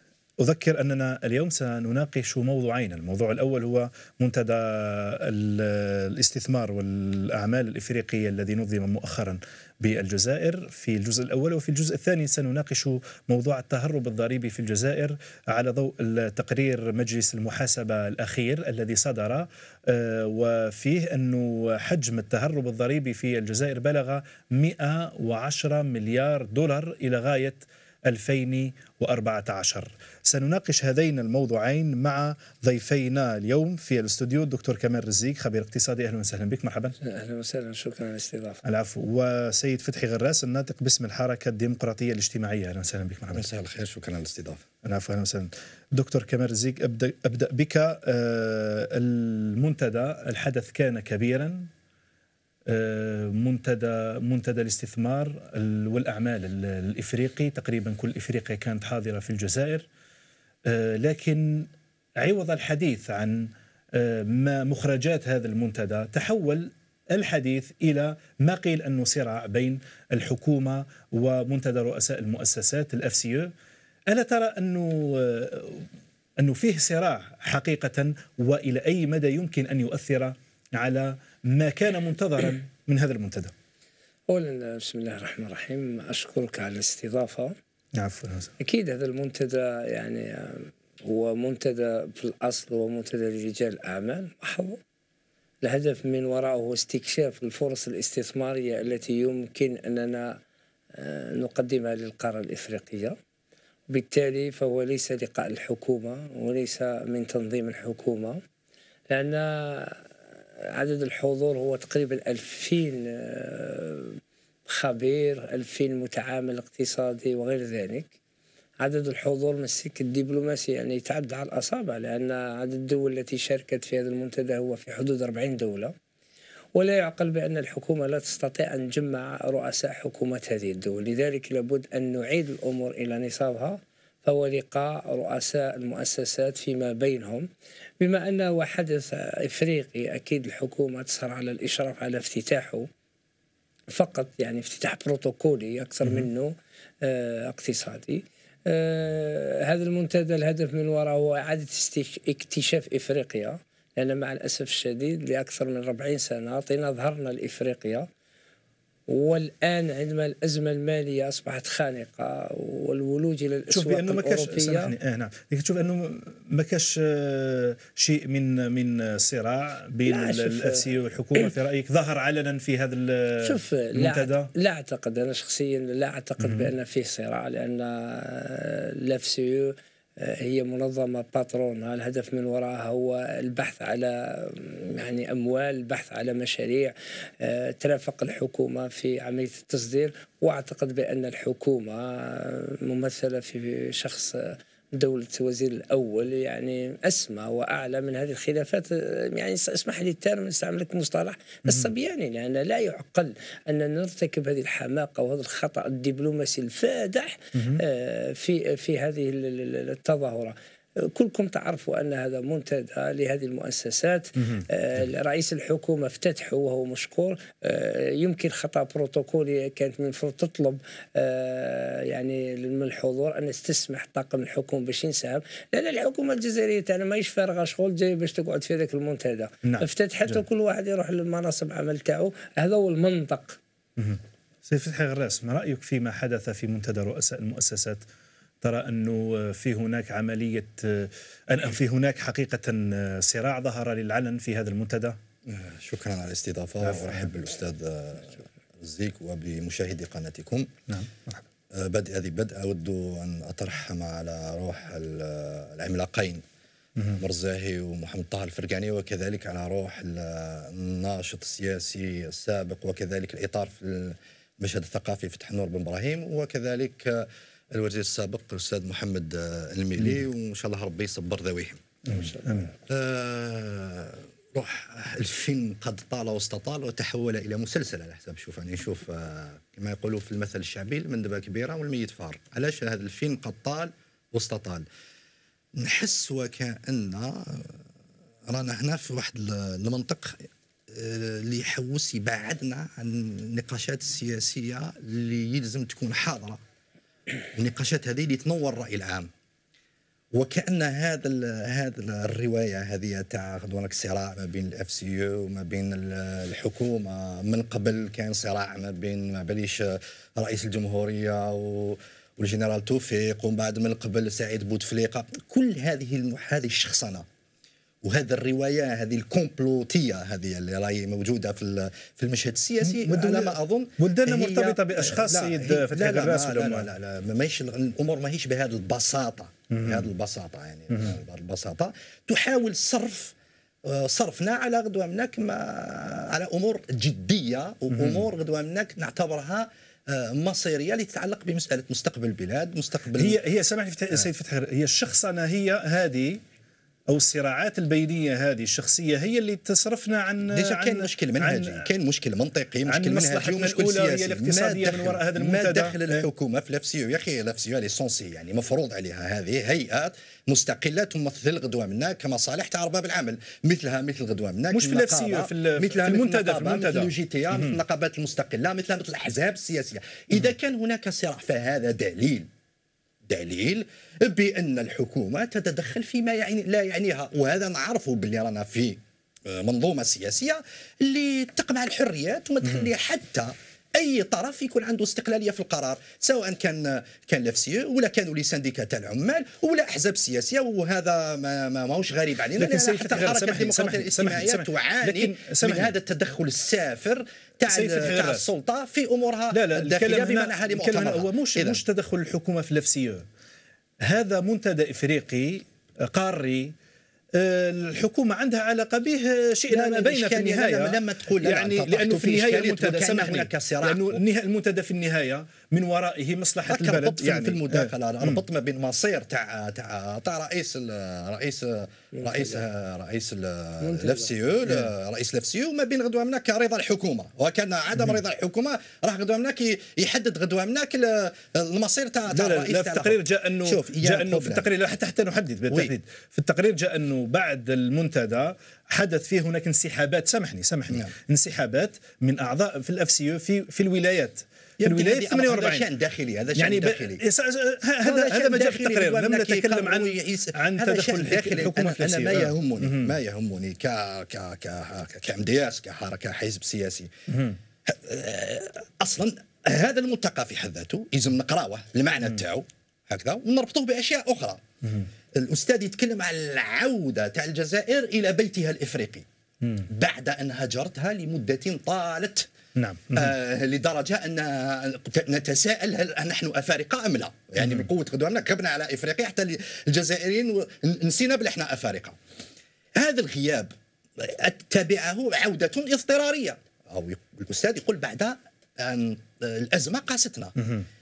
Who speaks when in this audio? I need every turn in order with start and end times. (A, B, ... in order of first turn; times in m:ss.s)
0:00.4-0:37.0 A
0:37.0-0:38.6 B
0:38.6-0:43.4 A
0:43.3-0:44.6 C
0:44.8-0:51.7 A
0:52.7-0:59.9 A
1:00.7-1:01.7 A
1:02.2-1:13.5 A
1:14.1-1:15.9 A
1:16.4-1:23.5 A
1:24.3-1:27.6 B
1:28.0-1:28.5 A
1:28.6-1:34.8 B
1:35.6-1:40.4 B
1:40.9-1:43.2 B
1:43.9-1:48.4 B
1:49.1-1:50.0 B
1:50.7-1:58.1 B
1:58.8-2:05.9 B
2:06.8-2:17.5 B
2:18.0-2:22.9 B
2:23.9-2:38.1 B
2:26.0-2:26.3 A
2:39.1-2:44.9 B
2:43.7-2:54.5 A
2:50.1-2:50.9 B
2:53.4-3:53.6 B
2:56.4-2:56.7 A
3:27.6-3:27.8 A
3:34.4-3:34.6 A
3:49.6-3:50.4 A
3:54.0-3:58.0 A
3:58.6-4:05.2 A
4:05.5-4:10.7 C
4:10.9-4:11.4 A
4:11.7-4:16.4 C
4:17.1-4:32.0 C
4:32.1-4:32.7 A
4:32.9-4:44.8 C
4:45.8-4:47.8 C
4:48.5-4:56.6 C
4:57.5-4:59.3 C
5:00.3-5:17.2 C
5:18.0-5:43.4 C
5:22.8-5:26.9 A
5:29.7-5:30.0 A
5:37.9-5:38.2 A
5:43.2-5:46.4 A
5:47.1-5:51.9 A
5:50.5-6:12.5 C
5:52.9-5:56.2 A
6:04.7-6:07.8 A
6:13.3-6:41.8 C
6:32.6-6:35.9 A
6:37.7-6:38.4 A
6:39.5-6:43.2 A
6:44.0-6:46.7 A
6:47.3-6:58.4 A
6:49.7-6:54.2 C
6:56.7-7:14.6 C
7:02.2-7:02.6 B
7:03.8-7:04.3 B
7:12.3-7:25.9 A
7:24.8-7:27.2 C
7:26.6-7:33.1 A
7:28.0-7:37.1 C
7:37.3-7:37.6 A
7:37.8-7:44.6 C
7:45.3-7:49.2 C
7:49.8-7:52.5 C
7:52.8-7:53.3 A
7:53.1-8:02.2 C
8:03.0-8:10.5 C
8:10.6-8:10.8 A